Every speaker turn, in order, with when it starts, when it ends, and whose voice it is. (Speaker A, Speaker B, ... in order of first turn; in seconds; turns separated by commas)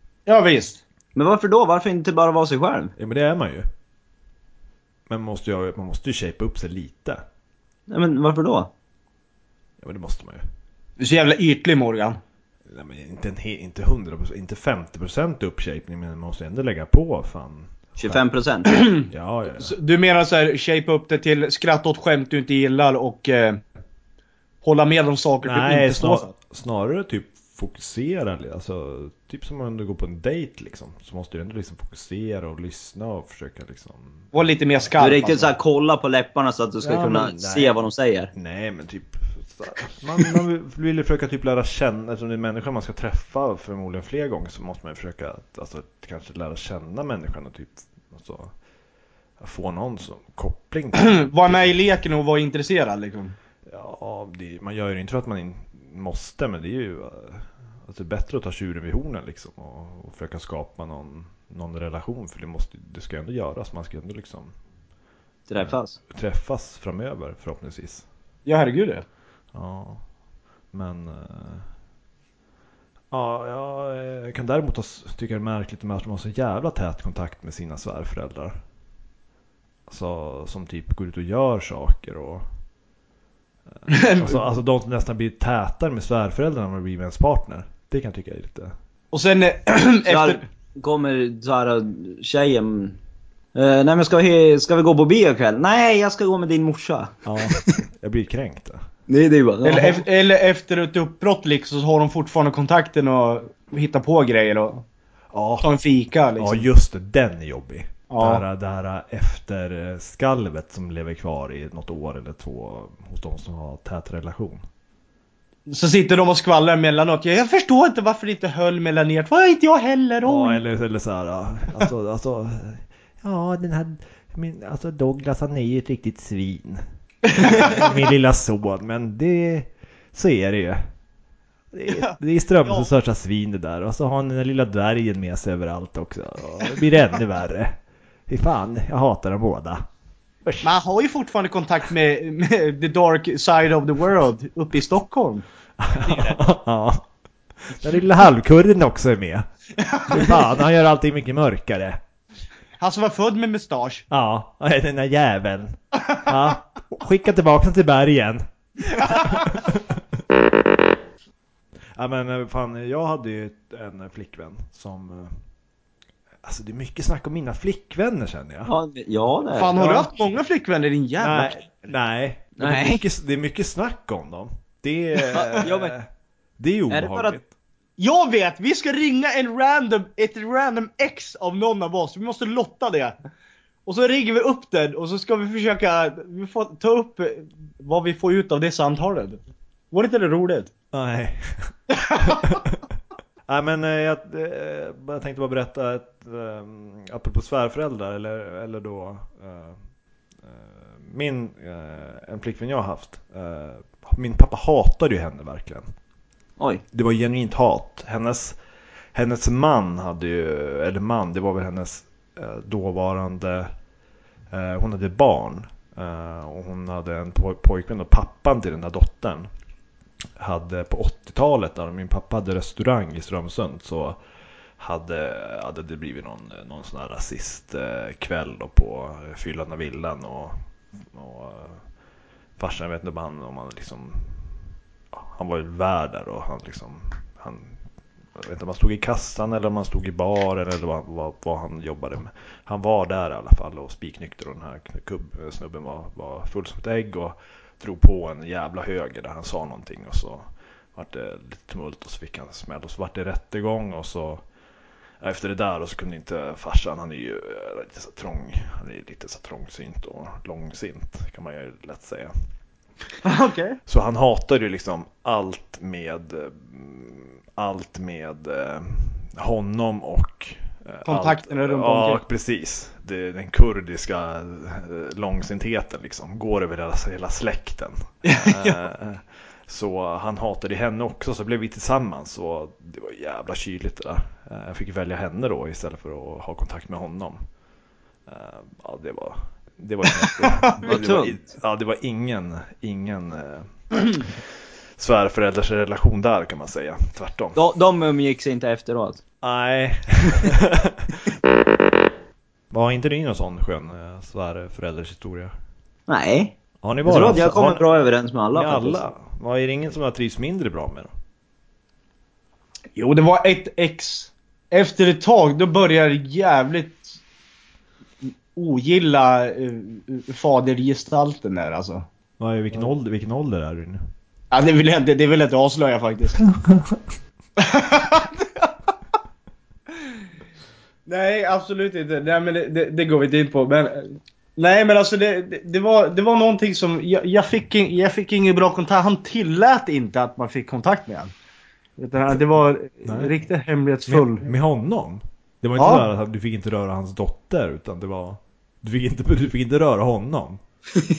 Speaker A: 0.3-0.8, Speaker B: 1.1-2.9, Speaker C: 3.0-3.7, Speaker C: 5.1-7.2, Speaker B: 7.9-8.7, Speaker C: 9.8-10.4, Speaker A: 11.0-12.2, Speaker C: 12.7-18.2, Speaker B: 18.0-18.7, Speaker A: 18.6-23.6, Speaker C: 19.1-19.7, Speaker A: 24.6-26.3, Speaker C: 25.4-34.3, Speaker A: 34.3-35.5, Speaker B: 35.0-38.3, Speaker C: 36.8-37.8, Speaker C: 38.3-48.5, Speaker C: 49.4-51.7, Speaker A: 50.9-53.4, Speaker C: 53.6-64.5, Speaker B: 65.5-66.0, Speaker C: 65.6-68.0, Speaker A: 68.5-69.0, Speaker C: 69.5-70.0, Speaker C: 70.7-71.7, Speaker C: 73.1-78.6, Speaker C: 79.9-82.4, Speaker C: 83.8-88.7, Speaker A: 83.9-84.4, Speaker A: 89.1-90.4, Speaker B: 90.1-93.0, Speaker B: 93.5-97.7, Speaker C: 97.2-98.8, Speaker B: 99.1-100.0, Speaker A: 99.6-104.8, Speaker C: 105.3-105.7, Speaker A: 105.6-106.7, Speaker C: 106.4-114.6, Speaker A: 108.1-108.4, Speaker A: 115.7-120.6, Speaker C: 120.2-126.8, Speaker A: 127.3-127.9, Speaker C: 127.3-130.9, Speaker C: 131.7-137.8, Speaker C: 138.3-139.8, Speaker C: 140.4-140.7, Speaker A: 140.6-145.4, Speaker C: 145.8-147.0, Speaker A: 146.0-146.4, Speaker C: 147.6-149.5, Speaker A: 149.8-150.4, Speaker C: 150.1-152.0, Speaker A: 152.8-154.0, Speaker C: 154.1-160.0, Speaker A: 159.0-159.5, Speaker C: 161.9-165.4, Speaker C: 166.4-168.7, Speaker B: 168.7-170.0, Speaker A: 169.5-171.9, Speaker C: 169.8-170.1, Speaker C: 171.2-176.1, Speaker B: 172.6-173.0, Speaker B: 175.3-175.9, Speaker C: 176.6-177.5, Speaker B: 176.9-177.4, Speaker A: 178.0-183.1, Speaker A: 183.9-189.4, Speaker A: 189.9-190.7, Speaker C: 190.9-192.8, Speaker A: 191.9-192.5, Speaker C: 193.5-199.8, Speaker C: 200.4-205.9, Speaker B: 206.6-206.8, Speaker C: 206.9-208.6, Speaker C: 209.1-213.7, Speaker C: 214.5-219.5, Speaker C: 220.4-224.2, Speaker C: 224.8-231.8, Speaker C: 232.6-234.5, Speaker C: 235.1-237.8, Speaker C: 238.4-254.4, Speaker C: 255.2-262.3, Speaker A: 263.2-263.8, Speaker C: 263.9-287.4, Speaker A: 271.1-272.2, Speaker A: 278.2-278.8, Speaker C: 288.3-294.4, Speaker A: 290.4-290.8, Speaker B: 290.8-291.4, Speaker C: 295.0-297.6, Speaker B: 297.6-299.2, Speaker C: 299.4-301.2, Speaker C: 302.7-305.5, Speaker B: 306.1-306.5, Speaker C: 306.8-307.9, Speaker B: 307.1-309.0, Speaker C: 308.5-311.1, Speaker A: 312.9-317.2, Speaker A: 318.2-322.1, Speaker C: 322.4-324.0, Speaker A: 324.5-326.4, Speaker C: 326.4-327.0, Speaker A: 327.6-328.7, Speaker A: 331.1-341.3, Speaker A: 342.0-344.4, Speaker C: 343.1-343.3, Speaker C: 344.1-350.6, Speaker A: 345.8-346.1